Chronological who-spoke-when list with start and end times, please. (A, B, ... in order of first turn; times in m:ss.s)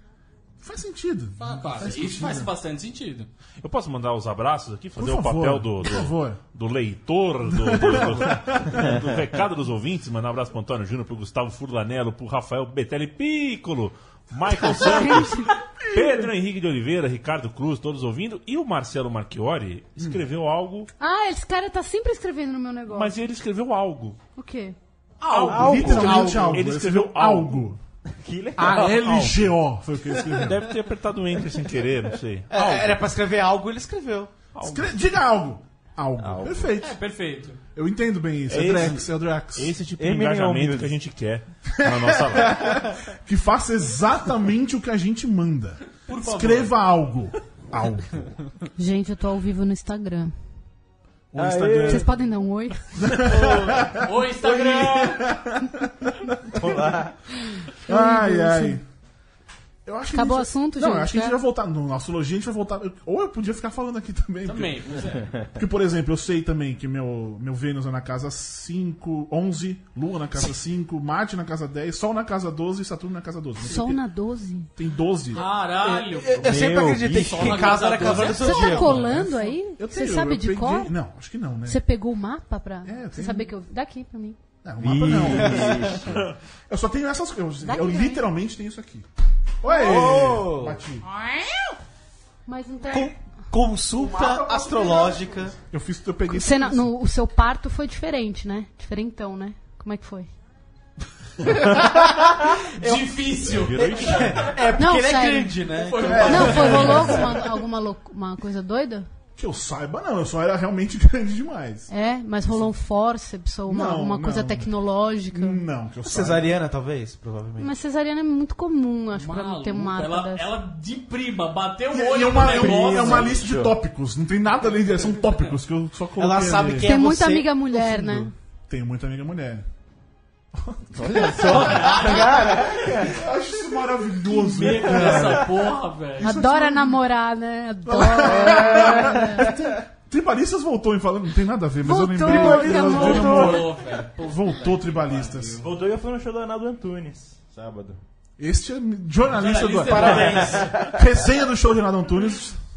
0:00.6-0:02.5 A
0:01.4-0:03.3 B
0:03.6-0:20.9 C
0:05.0-0:06.4 A
0:07.4-0:09.0 A
0:14.7-0:16.3 A
0:15.0-0:15.5 D
0:21.0-0:23.1 D
0:22.9-0:24.2 C
0:24.4-0:24.8 D
0:25.2-0:26.5 B
0:25.3-0:27.7 C
0:25.4-0:26.6 E
0:25.5-0:27.8 A
0:28.1-0:29.2 E
0:28.6-0:30.7 A
0:28.6-0:29.5 C
0:30.3-0:33.0 C
0:32.5-0:34.3 F
0:34.5-0:35.0 C
0:34.6-0:37.0 A
0:36.2-0:36.7 E
0:36.8-0:37.6 B
0:37.7-0:39.8 A
0:38.5-0:42.8 C
0:40.0-0:40.9 E
0:41.8-0:48.3 A
0:46.1-0:46.8 B
0:48.8-0:50.3 D
0:51.3-0:52.1 A
0:51.3-0:52.1 E
0:51.8-0:53.2 D
0:53.0-0:56.6 A
0:53.3-0:55.4 B
0:56.5-0:57.2 E
0:57.5-0:58.8 D
0:57.8-0:58.8 A
0:59.8-1:05.0 A
1:00.1-1:01.4 D
1:04.4-1:05.3 B
1:05.5-1:14.0 A
1:13.6-1:14.7 D
1:14.8-1:15.5 A
1:15.3-1:19.1 B
1:15.8-1:19.1 F
1:16.4-1:18.2 E
1:18.2-1:20.9 D
1:18.9-1:21.8 A
1:21.6-1:24.4 D
1:22.8-1:23.5 A
1:24.6-1:29.1 A
1:24.8-1:26.2 E
1:25.1-1:26.0 F
1:27.6-1:28.3 D
1:29.6-1:31.1 A
1:29.7-1:30.0 D
1:29.7-1:30.7 E
1:32.5-1:33.1 D
1:32.9-1:35.5 F
1:34.0-1:36.9 A
1:36.3-1:40.3 D
1:41.4-1:43.0 F
1:42.7-1:44.5 B
1:43.5-1:44.6 E
1:43.7-1:47.0 F
1:44.8-1:45.6 D
1:45.7-1:47.3 B
1:46.0-1:47.4 A
1:46.2-1:49.1 D
1:49.4-1:51.9 A
1:51.9-1:55.6 D
1:53.7-1:54.7 A
1:55.3-1:56.5 A
1:56.0-1:57.7 F
1:57.6-2:00.5 D
1:59.1-2:03.4 B
2:01.9-2:06.9 A
2:02.4-2:03.8 E
2:05.2-2:05.5 B
2:06.2-2:08.3 F
2:06.8-2:08.3 D
2:08.7-2:09.7 A
2:10.5-2:11.6 A
2:10.9-2:13.2 E
2:11.2-2:13.0 B
2:12.8-2:15.5 A
2:14.3-2:16.3 B
2:15.0-2:15.4 E
2:16.2-2:17.0 A
2:16.2-2:19.4 D
2:17.8-2:25.6 A
2:18.2-2:19.7 E
2:21.8-2:23.6 D
2:22.2-2:23.6 E
2:22.6-2:25.6 B
2:25.3-2:28.0 E
2:28.4-2:32.6 A
2:29.3-2:31.0 B
2:29.9-2:30.7 F
2:30.0-2:31.0 E